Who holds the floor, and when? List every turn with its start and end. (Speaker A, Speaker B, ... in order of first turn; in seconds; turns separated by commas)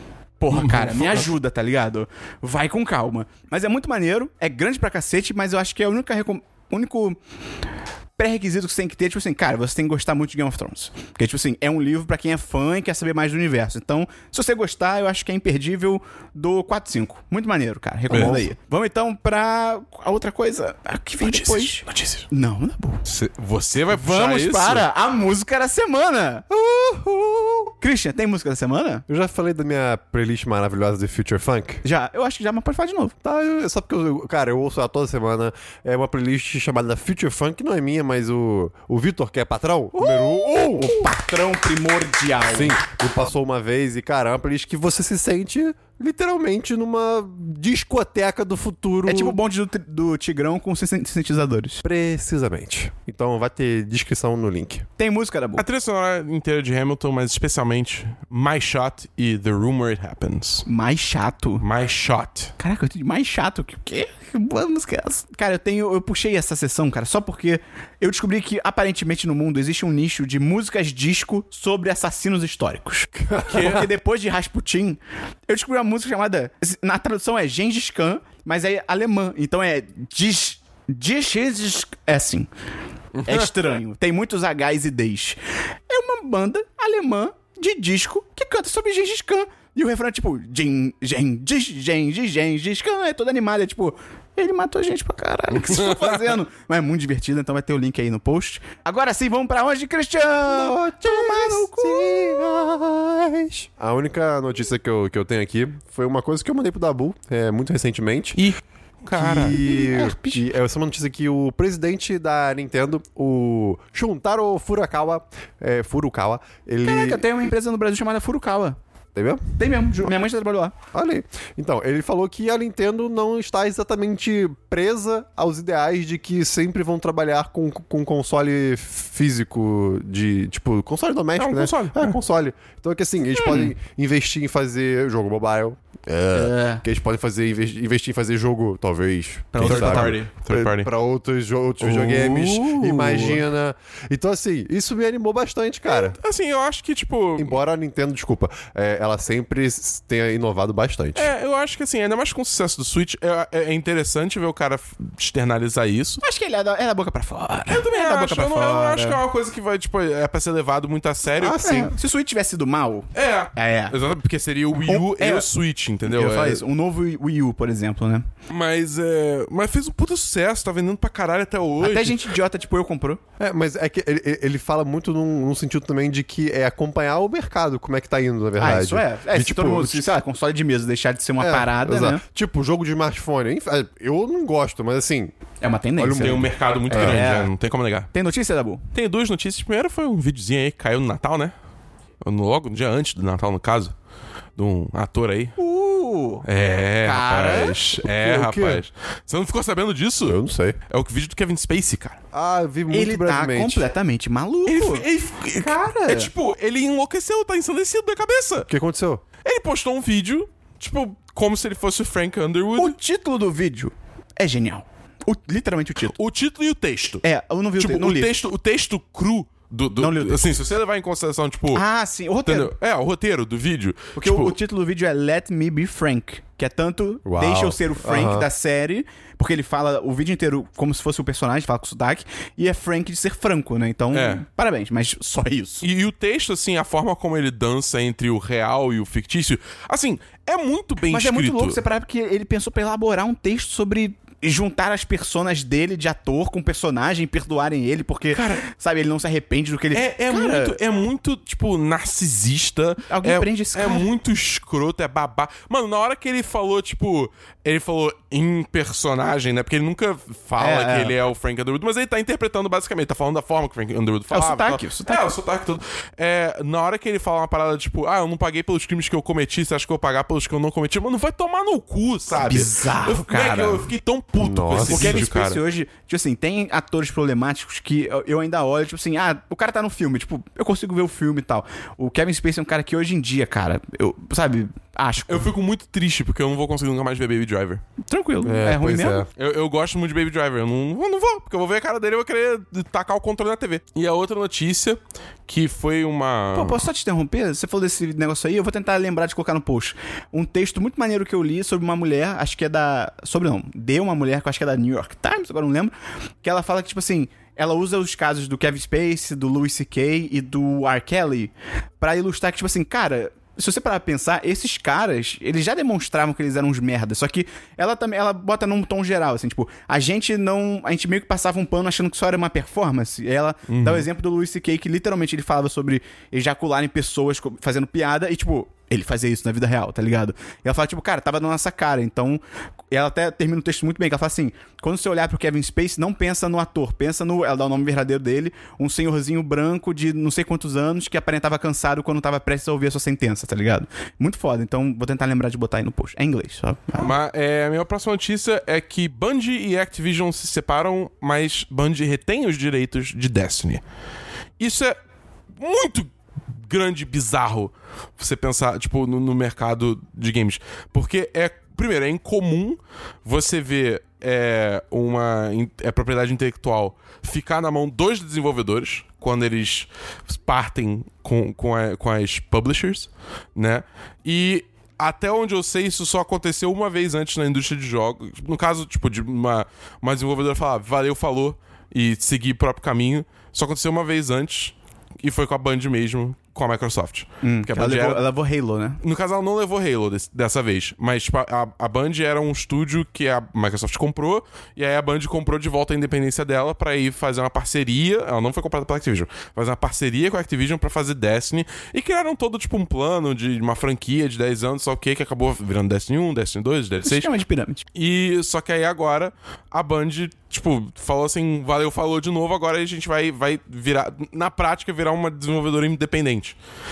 Speaker A: 0.4-7.2, Speaker B: 0.5-1.3, Speaker A: 8.2-23.0, Speaker B: 18.1-18.4, Speaker C: 18.1-18.4, Speaker B: 21.2-22.3, Speaker B: 23.0-24.9, Speaker A: 23.9-26.4, Speaker C: 26.5-27.7, Speaker A: 27.8-29.0, Speaker C: 29.1-31.8, Speaker A: 31.8-33.1, Speaker C: 33.2-41.1, Speaker A: 39.9-42.8, Speaker C: 42.5-49.4, Speaker A: 49.0-51.8, Speaker C: 51.8-54.9, Speaker A: 55.0-55.6, Speaker B: 55.6-60.6, Speaker A: 60.6-61.6, Speaker B: 61.6-62.5, Speaker A: 62.6-82.5, Speaker C: 73.2-73.8, Speaker B: 73.4-73.8, Speaker B: 83.2-83.5, Speaker A: 83.2-85.4, Speaker A: 85.9-102.4, Speaker B: 95.5-96.3, Speaker C: 100.5-108.4, Speaker B: 108.4-109.6, Speaker C: 109.1-117.2, Speaker A: 109.2-110.4, Speaker A: 116.8-118.8, Speaker C: 119.1-120.1, Speaker A: 119.6-120.7, Speaker C: 120.9-146.2, Speaker B: 131.4-132.2, Speaker A: 133.3-133.7, Speaker A: 136.3-136.8, Speaker A: 139.5-140.3, Speaker B: 139.6-140.9, Speaker B: 141.8-143.4, Speaker B: 145.8-147.6, Speaker C: 147.4-151.3, Speaker B: 151.2-156.2, Speaker A: 156.2-159.2, Speaker B: 157.7-161.9, Speaker A: 161.4-164.0, Speaker B: 163.1-166.6, Speaker A: 164.8-165.5, Speaker A: 166.0-168.3, Speaker B: 168.5-172.3, Speaker A: 171.8-173.2, Speaker C: 173.4-180.1, Speaker A: 178.6-182.2, Speaker C: 181.4-185.3, Speaker A: 185.6-187.5, Speaker B: 186.0-188.1, Speaker C: 186.0-186.4, Speaker C: 186.9-187.2, Speaker A: 188.1-188.8, Speaker B: 188.9-191.5, Speaker B: 192.2-193.9, Speaker B: 194.6-195.6, Speaker A: 195.6-196.4, Speaker B: 196.4-202.2, Speaker A: 197.0-197.8, Speaker C: 198.0-198.8, Speaker C: 200.2-200.8, Speaker C: 202.3-203.9, Speaker A: 202.9-205.1, Speaker B: 204.7-208.7, Speaker A: 205.6-206.3, Speaker C: 208.7-209.2, Speaker B: 209.4-212.9, Speaker A: 212.8-216.1, Speaker B: 216.0-217.2, Speaker A: 217.2-218.3, Speaker B: 217.8-221.8, Speaker A: 220.0-220.5, Speaker A: 221.7-222.7, Speaker B: 222.4-224.5, Speaker A: 224.2-235.8, Speaker C: 227.2-228.5, Speaker B: 234.1-234.4, Speaker B: 235.8-241.8, Speaker A: 241.1-250.8, Speaker B: 248.3-248.6, Speaker B: 249.9-275.6, Speaker A: 253.1-254.1, Speaker A: 260.6-261.1, Speaker A: 264.3-265.3, Speaker A: 272.4-273.9, Speaker C: 274.4-275.2, Speaker A: 274.9-285.5, Speaker B: 285.3-287.8, Speaker A: 288.1-289.2, Speaker C: 288.4-289.3, Speaker B: 289.3-296.8, Speaker A: 296.5-347.1, Speaker B: 323.7-324.1, Speaker B: 347.0-353.8, Speaker B: 354.6-355.0, Speaker B: 355.6-356.1, Speaker B: 356.6-388.2, Speaker A: 387.4-389.0, Speaker B: 389.0-407.3, Speaker A: 407.0-407.9, Speaker B: 407.9-416.6